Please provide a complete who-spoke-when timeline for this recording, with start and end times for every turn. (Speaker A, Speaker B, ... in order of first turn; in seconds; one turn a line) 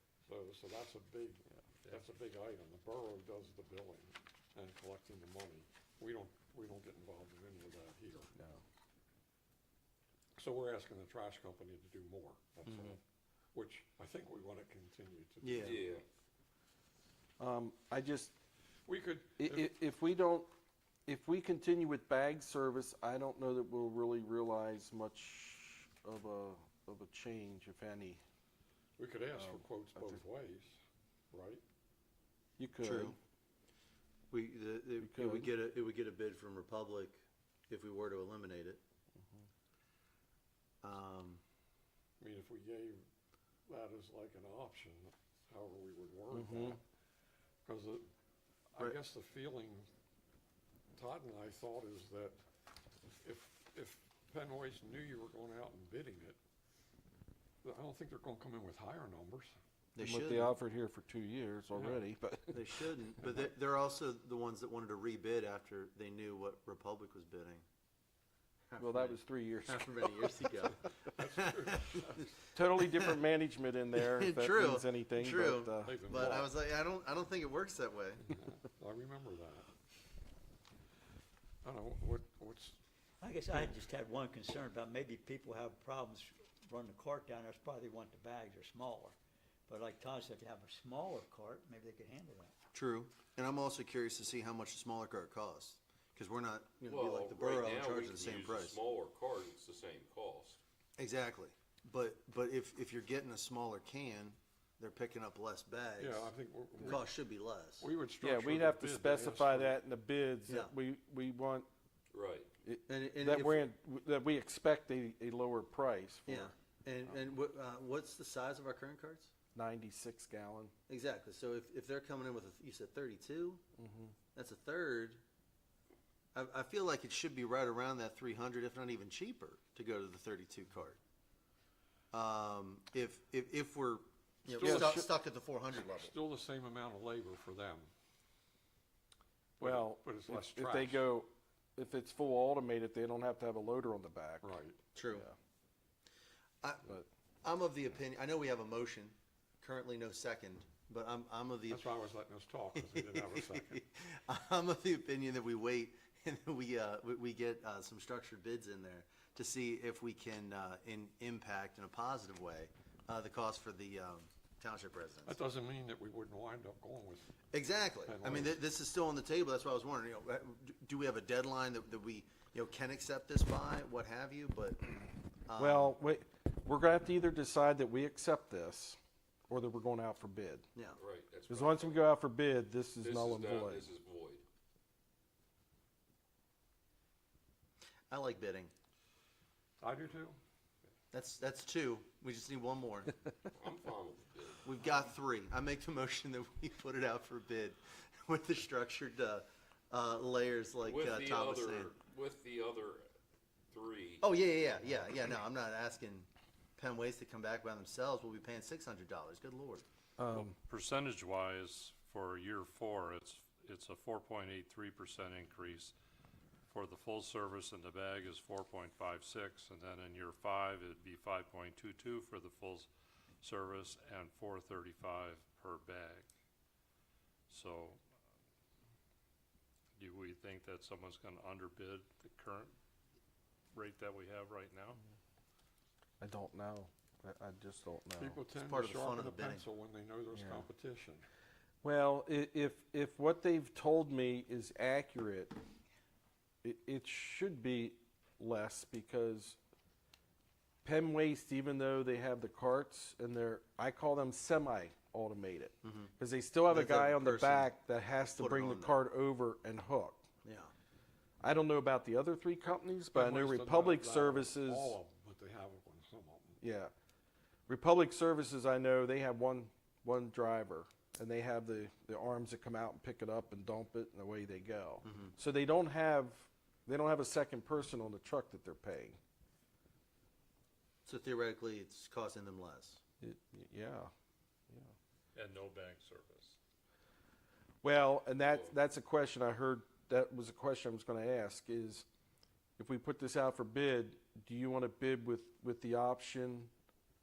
Speaker A: 0.3-8.3
Speaker B: 8.4-8.6
Speaker A: 10.4-13.0
Speaker A: 13.5-16.0
Speaker C: 15.4-15.8
Speaker D: 15.6-16.0
Speaker B: 17.4-18.3
Speaker A: 18.9-19.7
Speaker B: 19.4-20.5
Speaker B: 21.1-28.2
Speaker A: 29.0-30.8
Speaker B: 29.4-30.2
Speaker A: 31.3-31.6
Speaker B: 32.6-33.2
Speaker C: 32.8-33.1
Speaker C: 34.3-38.8
Speaker B: 35.0-35.5
Speaker B: 39.2-39.5
Speaker C: 40.8-41.4
Speaker A: 42.2-43.1
Speaker A: 43.7-46.8
Speaker B: 46.3-46.8
Speaker A: 47.6-48.1
Speaker A: 48.7-49.9
Speaker A: 51.0-52.4
Speaker A: 53.2-56.4
Speaker A: 57.6-59.6
Speaker C: 60.0-60.5
Speaker B: 60.0-62.7
Speaker C: 62.5-67.6
Speaker C: 68.7-73.1
Speaker B: 68.8-70.1
Speaker A: 71.2-72.1
Speaker B: 72.5-76.0
Speaker C: 74.0-78.2
Speaker A: 75.8-76.5
Speaker A: 78.3-79.7
Speaker A: 81.6-82.8
Speaker E: 83.2-89.2
Speaker E: 89.7-92.5
Speaker C: 92.7-98.8
Speaker D: 96.8-100.6
Speaker C: 101.0-107.9
Speaker A: 106.0-107.1
Speaker A: 107.8-109.8
Speaker B: 108.2-111.7
Speaker C: 110.5-110.7
Speaker D: 112.1-112.5
Speaker B: 112.7-116.5
Speaker C: 112.9-113.7
Speaker C: 116.3-119.3
Speaker B: 119.5-120.7
Speaker C: 120.9-123.6
Speaker B: 123.8-124.2
Speaker C: 124.3-125.2
Speaker C: 126.3-131.0
Speaker C: 132.1-136.2
Speaker A: 134.6-135.1
Speaker B: 134.6-135.1
Speaker A: 135.7-137.9
Speaker B: 139.6-144.5
Speaker A: 139.6-141.1
Speaker A: 144.4-144.8
Speaker C: 144.9-145.3
Speaker B: 145.1-145.3
Speaker C: 146.6-146.9
Speaker C: 147.4-151.9
Speaker A: 151.7-153.8
Speaker C: 152.8-165.4
Speaker A: 165.2-167.3
Speaker C: 167.5-174.9
Speaker A: 168.1-168.6
Speaker C: 175.5-175.9
Speaker B: 175.6-180.7
Speaker C: 180.8-181.0
Speaker D: 181.0-182.0
Speaker B: 181.5-183.9
Speaker D: 183.0-184.4
Speaker C: 188.1-188.7
Speaker A: 189.8-190.4
Speaker C: 191.1-193.2
Speaker D: 193.6-194.7
Speaker C: 194.6-201.9
Speaker D: 200.8-203.1
Speaker D: 203.7-204.2
Speaker C: 204.2-209.8
Speaker B: 210.2-210.6
Speaker F: 210.3-215.9
Speaker F: 216.7-222.9
Speaker F: 223.4-226.3
Speaker F: 227.5-228.0
Speaker F: 230.0-232.8
Speaker F: 233.7-235.0
Speaker B: 236.2-238.4
Speaker A: 238.2-241.3
Speaker C: 238.5-239.7
Speaker B: 240.3-240.7
Speaker B: 241.8-245.6
Speaker B: 246.6-249.6
Speaker B: 250.8-260.3
Speaker C: 255.8-256.1
Speaker C: 256.7-257.7
Speaker C: 258.3-259.0
Speaker C: 260.4-260.7
Speaker B: 261.4-265.0
Speaker A: 263.1-266.6
Speaker B: 266.6-266.9
Speaker B: 267.7-279.2
Speaker C: 275.0-275.3
Speaker C: 281.1-283.0
Speaker B: 283.2-284.1
Speaker F: 285.4-286.6
Speaker B: 287.8-292.1
Speaker D: 288.5-288.7
Speaker B: 292.8-296.7